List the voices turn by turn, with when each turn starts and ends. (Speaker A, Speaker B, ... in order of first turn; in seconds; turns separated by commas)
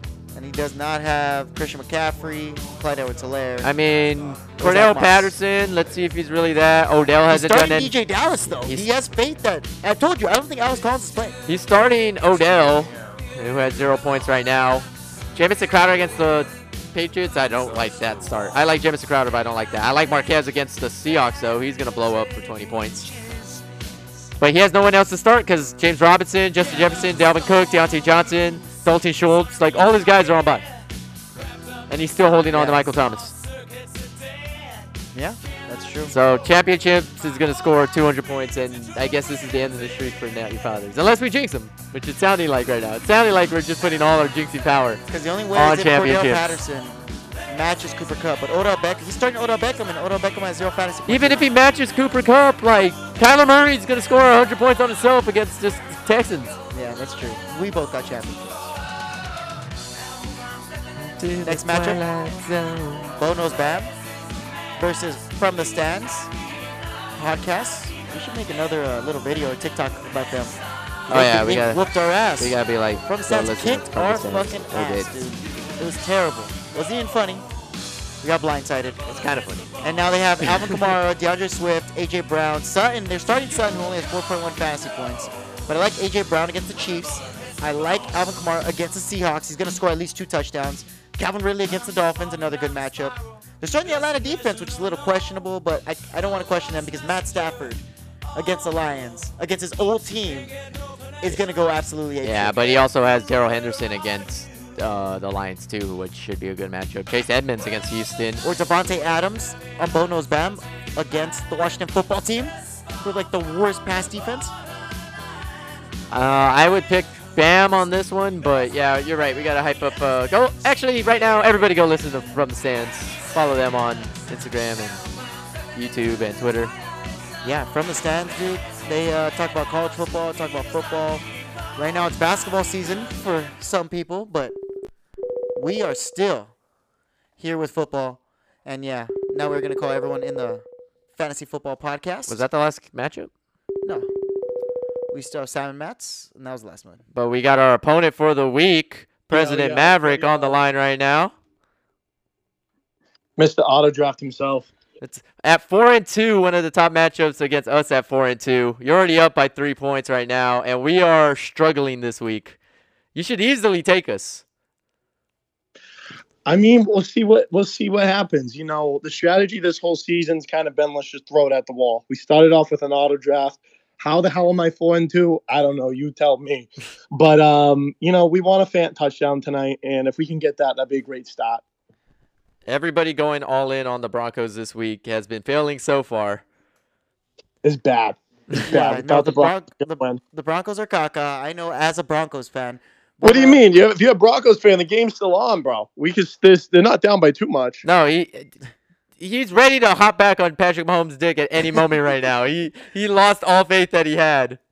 Speaker A: 0.3-3.7, Speaker B: 3.6-7.9, Speaker A: 4.6-5.4, Speaker A: 7.3-11.4, Speaker B: 8.6-8.9, Speaker B: 11.5-23.1, Speaker B: 24.4-30.7, Speaker B: 31.9-33.4, Speaker A: 32.5-32.8, Speaker A: 35.1-36.1, Speaker B: 36.1-45.0, Speaker A: 45.1-51.4, Speaker B: 45.5-46.6, Speaker B: 51.1-56.6, Speaker A: 56.7-58.7, Speaker B: 61.0-63.1, Speaker A: 61.4-62.0, Speaker A: 63.2-63.9, Speaker A: 64.8-66.3, Speaker A: 67.1-70.5, Speaker B: 71.1-71.8, Speaker A: 71.1-77.4, Speaker B: 72.4-75.2, Speaker A: 78.2-79.0, Speaker B: 79.0-79.7, Speaker A: 79.8-97.8, Speaker B: 80.4-80.9, Speaker A: 98.3-100.5, Speaker A: 101.2-102.8, Speaker B: 102.2-108.4, Speaker A: 108.4-114.5, Speaker B: 116.1-125.0, Speaker B: 125.7-126.7, Speaker A: 127.4-134.6, Speaker A: 135.6-136.5, Speaker A: 137.4-140.6, Speaker A: 141.1-142.4, Speaker B: 142.3-143.3, Speaker A: 145.1-147.0, Speaker B: 147.1-151.3, Speaker C: 149.3-150.6, Speaker C: 153.4-154.7, Speaker B: 155.0-162.6, Speaker B: 163.1-164.4, Speaker C: 166.5-181.6, Speaker B: 182.7-186.4, Speaker C: 187.6-190.2, Speaker A: 188.6-193.6, Speaker C: 193.2-197.8, Speaker B: 197.8-198.5, Speaker B: 199.2-204.6